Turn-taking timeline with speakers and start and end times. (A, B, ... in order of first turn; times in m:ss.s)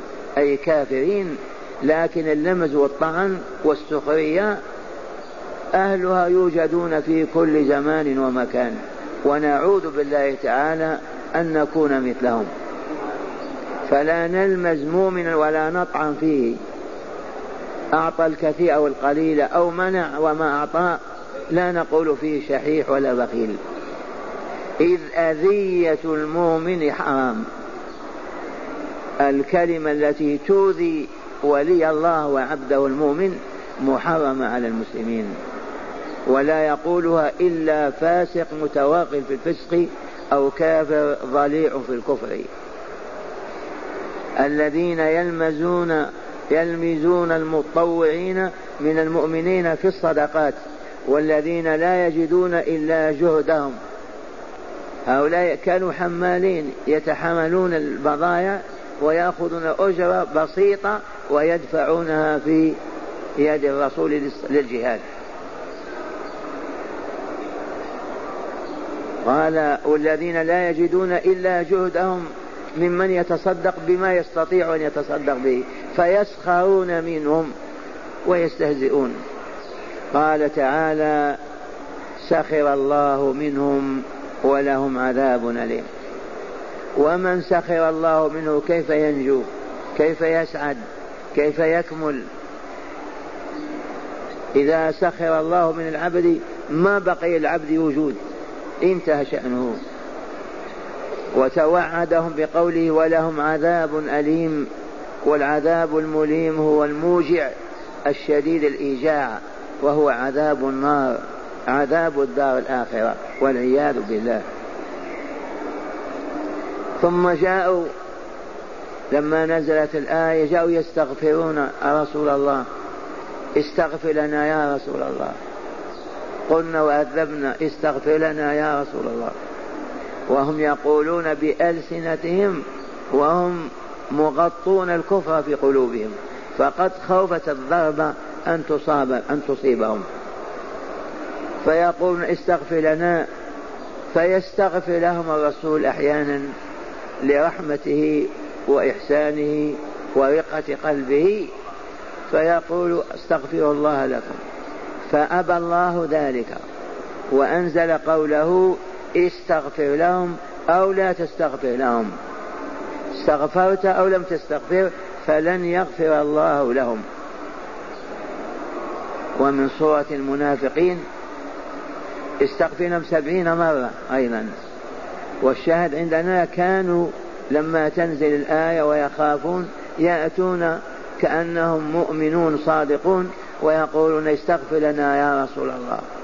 0:00.4-0:04.6 A
0:05.7-0:12.5 A
0:13.9-0:16.6 A
0:17.9-0:21.0 A
0:21.5-0:23.6 A
0:24.8-0:27.4 A
0:29.2-0:35.3 A
0:36.3-0:42.5 A
0:44.4-0:53.8 A
0:55.1-1:02.8 A
1:03.4-1:05.0 A
1:09.2-1:12.2 A
1:12.8-1:17.5 A
1:18.2-1:19.1 A
1:20.1-1:21.4 A
1:22.2-1:25.9 A
1:27.0-1:30.8 A
1:31.3-1:32.2 A
1:34.5-1:38.2 A
1:38.8-1:39.8 A
1:41.3-1:44.7 A
1:45.2-1:47.5 A
1:48.0-1:54.4 A
1:57.0-1:57.9 A
1:59.1-2:02.6 A
2:03.6-2:05.4 A
2:06.5-2:09.3 A
2:10.3-2:20.0 A
2:21.6-2:23.2 A
2:24.1-2:26.5 A
2:27.2-2:31.5 A
2:32.3-2:34.4 A
2:35.1-2:36.6 A
2:37.3-2:42.1 A
2:43.1-2:47.0 A
2:49.4-2:51.0 A
2:52.4-2:54.5 A
2:55.4-3:06.0 A